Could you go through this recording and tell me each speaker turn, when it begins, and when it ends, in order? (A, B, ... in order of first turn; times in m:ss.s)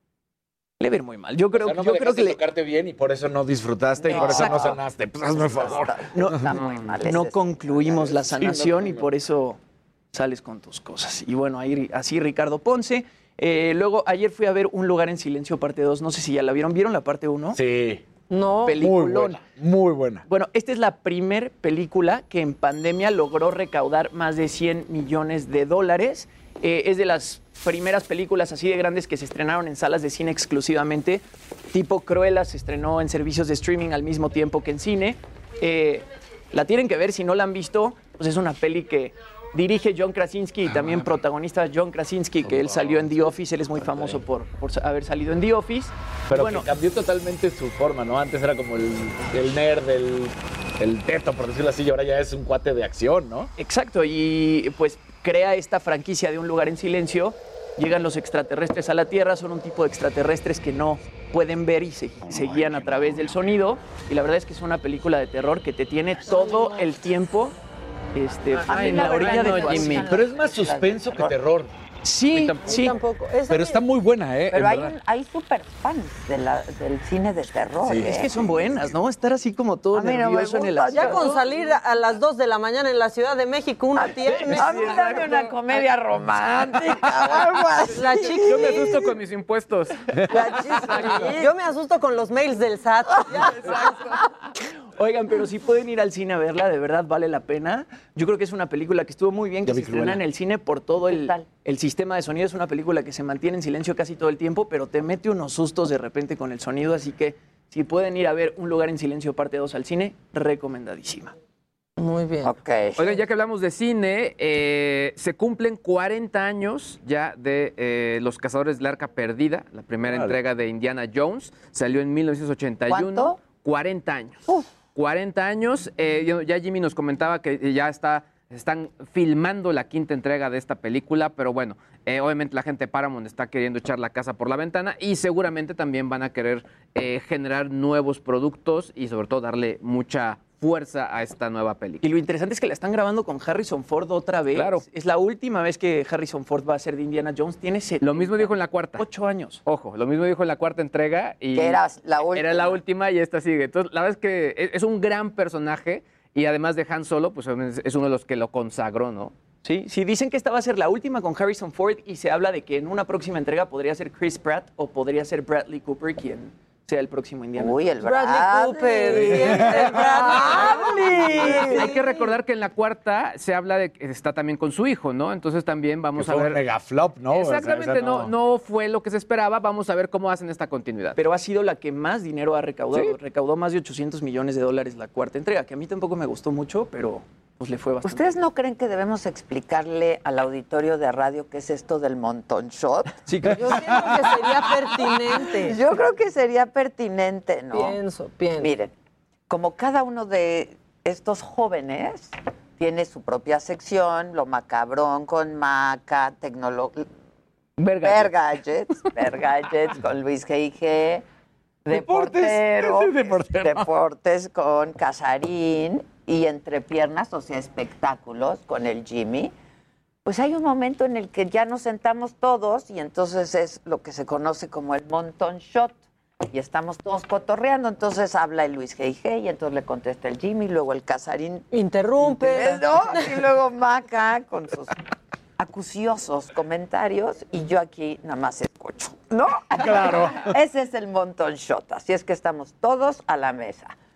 0:00.8-0:02.4 A
0:01.5-0:06.4 B
0:04.0-0:08.1 C
0:04.3-0:04.8 A
0:06.1-0:09.6 A
0:06.6-0:06.9 D
0:08.1-0:09.0 B
0:10.1-0:17.6 A
0:17.5-0:18.0 B
0:18.3-0:18.8 E
0:18.6-0:19.4 A
0:18.7-0:20.2 B
0:20.3-0:46.7 A
0:40.7-0:41.0 B
0:42.5-0:43.2 B
0:43.8-0:44.2 B
0:46.3-0:53.5 B
0:53.6-1:07.5 A
1:08.1-1:10.0 A
1:08.6-1:10.1 D
1:08.6-1:11.4 C
1:10.0-1:11.7 B
1:12.0-1:13.0 A
1:12.3-1:12.8 D
1:12.7-1:13.8 E
1:13.5-1:14.9 B
1:14.5-1:18.4 C
1:17.8-1:18.2 B
1:18.0-1:21.4 A
1:19.9-1:21.4 C
1:20.9-1:25.5 E
1:24.0-1:29.1 C
1:27.9-1:28.8 E
1:28.4-1:30.0 D
1:30.3-1:31.5 C
1:31.2-1:33.8 E
1:35.0-1:51.3 A
1:39.6-1:40.2 B
1:41.0-1:41.5 C
1:52.0-1:52.5 E
1:52.4-1:53.1 C
1:53.0-2:22.0 D
2:02.9-2:03.4 C
2:22.0-2:29.6 A
2:24.5-2:24.8 D
2:28.0-2:29.0 D
2:29.6-2:31.8 D
2:31.5-2:32.8 C
2:32.3-2:39.3 D
2:39.6-2:47.9 A
2:47.6-2:52.0 C
2:48.0-2:52.3 E
2:49.2-2:49.8 B
2:51.4-2:56.6 D
2:56.2-2:58.3 B
2:57.3-3:01.2 D
3:01.2-3:08.4 A
3:08.0-3:13.2 C
3:13.2-3:14.0 A
3:13.5-3:15.8 E
3:15.4-3:18.0 C
3:17.7-3:18.7 E
3:18.6-3:18.9 C
3:19.5-3:27.1 C
3:27.8-3:28.3 D
3:28.0-3:31.2 C
3:31.8-3:39.5 C
3:31.9-3:33.8 B
3:40.2-3:51.7 C
3:51.7-3:53.3 E
3:52.2-3:54.9 C
3:55.6-4:03.9 C
3:59.7-4:00.5 B